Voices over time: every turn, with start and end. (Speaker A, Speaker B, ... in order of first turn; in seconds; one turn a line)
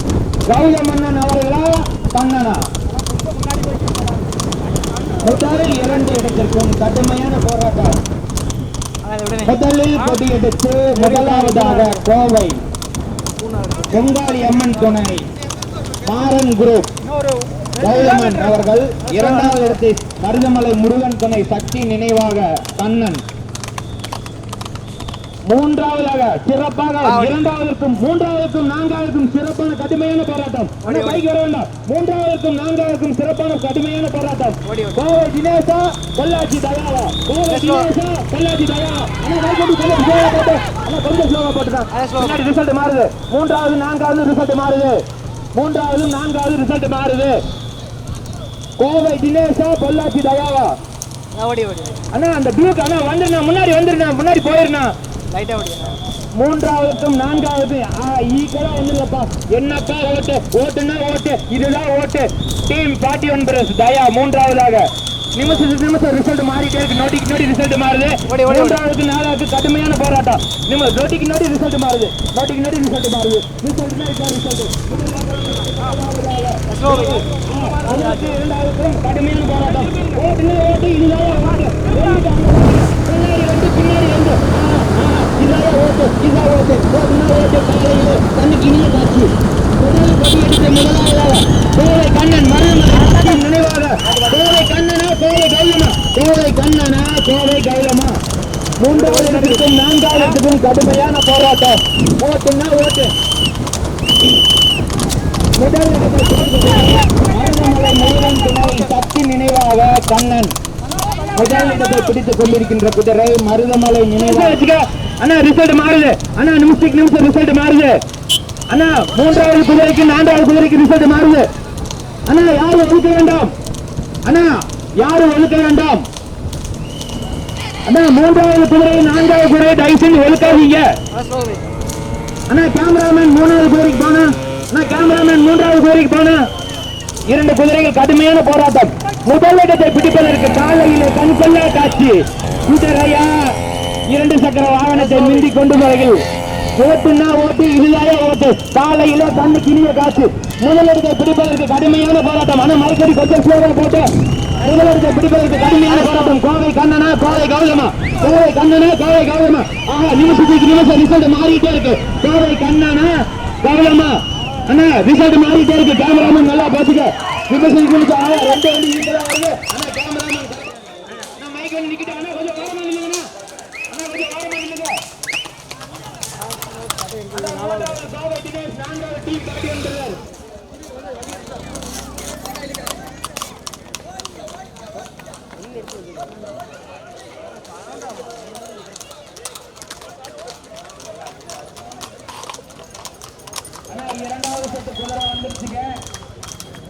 Speaker A: 0.5-2.6
Speaker B: 3.2-4.0
Speaker A: 5.2-8.0
Speaker B: 9.0-9.6
Speaker A: 9.4-12.5
Speaker B: 10.9-12.1
Speaker B: 13.4-14.0
Speaker A: 13.9-15.2
Speaker A: 16.0-16.9
Speaker B: 17.7-19.8
Speaker A: 17.8-23.2
Speaker A: 25.5-45.0
Speaker B: 27.0-27.4
Speaker B: 30.8-31.2
Speaker B: 34.6-35.0
Speaker B: 37.5-37.9
Speaker B: 41.9-42.4
Speaker A: 45.5-47.4
Speaker A: 48.8-50.7
Speaker B: 51.3-52.0
Speaker A: 52.1-54.9
Speaker B: 55.3-56.0
Speaker A: 56.4-98.2
Speaker B: 68.3-68.8
Speaker B: 76.7-78.4
Speaker B: 92.9-93.5
Speaker B: 94.0-94.7
Speaker A: 98.8-103.1
Speaker B: 98.9-100.4
Speaker A: 105.6-110.5
Speaker A: 111.3-117.9
Speaker A: 118.7-121.5
Speaker A: 122.3-123.5
Speaker A: 124.3-126.0
Speaker A: 127.9-130.9
Speaker B: 131.1-131.7
Speaker A: 132.5-136.4
Speaker A: 137.3-143.3
Speaker A: 144.1-146.2
Speaker B: 144.9-145.5
Speaker A: 146.8-154.1
Speaker A: 154.6-173.2
Speaker B: 155.9-156.3
Speaker A: 173.9-175.0
Speaker B: 176.5-178.0
Speaker A: 177.3-180.2
Speaker A: 193.9-195.9